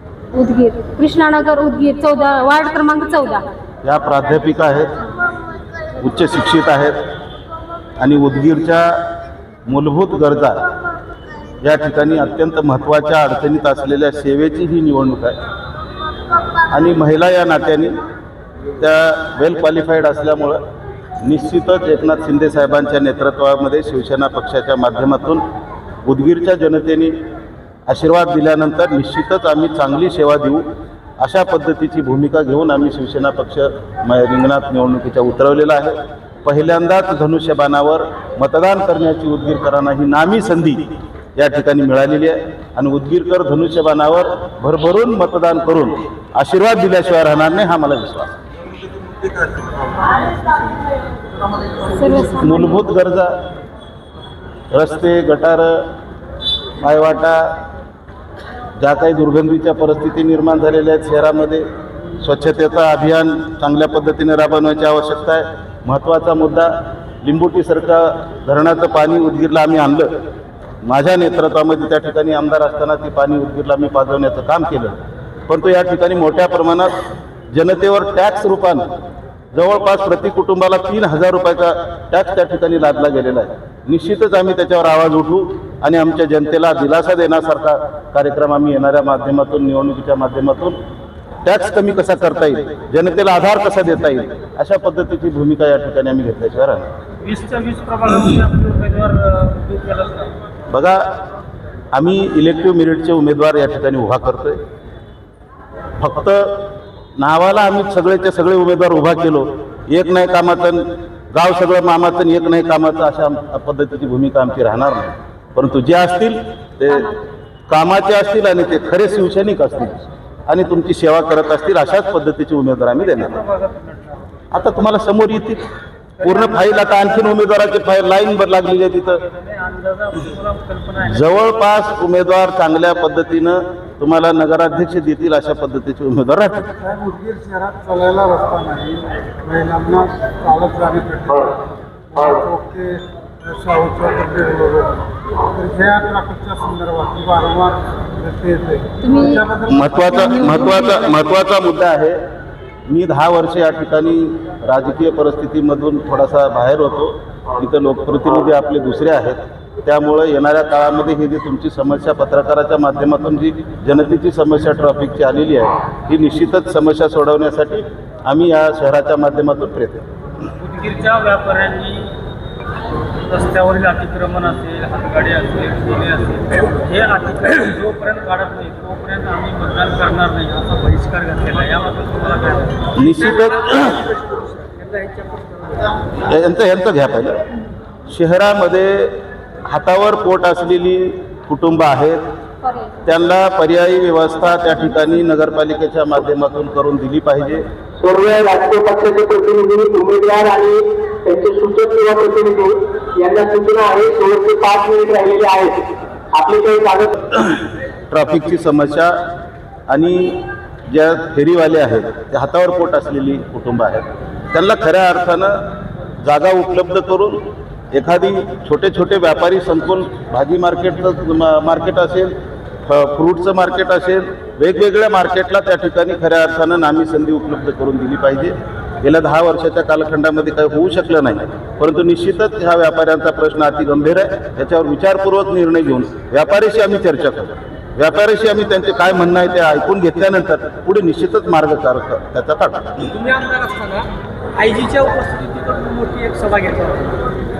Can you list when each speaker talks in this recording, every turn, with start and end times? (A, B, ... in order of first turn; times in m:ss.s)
0:00.3-0:03.4 A
0:03.8-0:05.0 B
0:06.0-0:07.0 B
0:08.0-0:09.0 B
0:09.6-0:10.6 B
0:11.6-0:15.4 B
0:16.7-0:18.0 B
0:18.8-0:20.6 B
0:21.2-0:25.4 B
0:26.0-0:27.2 B
0:27.9-0:30.6 B
0:31.2-0:48.4 B
0:51.7-0:52.8 A
0:52.4-0:53.3 B
0:54.7-0:55.8 B
0:56.8-0:57.5 B
0:58.8-1:01.6 B
1:02.2-1:10.1 B
1:10.8-1:15.0 B
1:15.5-1:16.9 B
1:17.5-1:18.8 B
1:19.5-1:30.8 B
1:31.4-1:36.8 B
1:37.2-1:40.3 C
1:40.7-1:41.0 B
1:41.9-1:44.6 B
1:46.0-1:46.6 B
1:47.2-1:57.1 B
1:57.7-2:03.4 B
2:03.1-2:04.2 C
2:04.5-2:05.6 B
2:06.2-2:07.4 C
2:06.2-2:09.2 B
2:09.2-2:11.4 C
2:11.0-2:16.8 B
2:16.8-2:29.7 D
2:29.0-2:29.5 A
2:29.6-2:32.2 B
2:30.0-2:31.2 A
2:32.9-2:50.0 B
2:50.6-2:52.1 C
2:53.2-3:06.0 C
3:02.9-3:04.0 B
3:06.0-3:07.4 B
3:08.1-3:12.2 B
3:12.6-3:12.9 A
3:13.0-3:17.6 B
3:18.0-3:27.2 E
3:28.1-3:29.1 B
3:29.9-3:35.5 B
3:36.2-3:37.4 B
3:37.9-3:42.3 B
3:42.9-4:03.1 B
4:03.1-4:07.3 C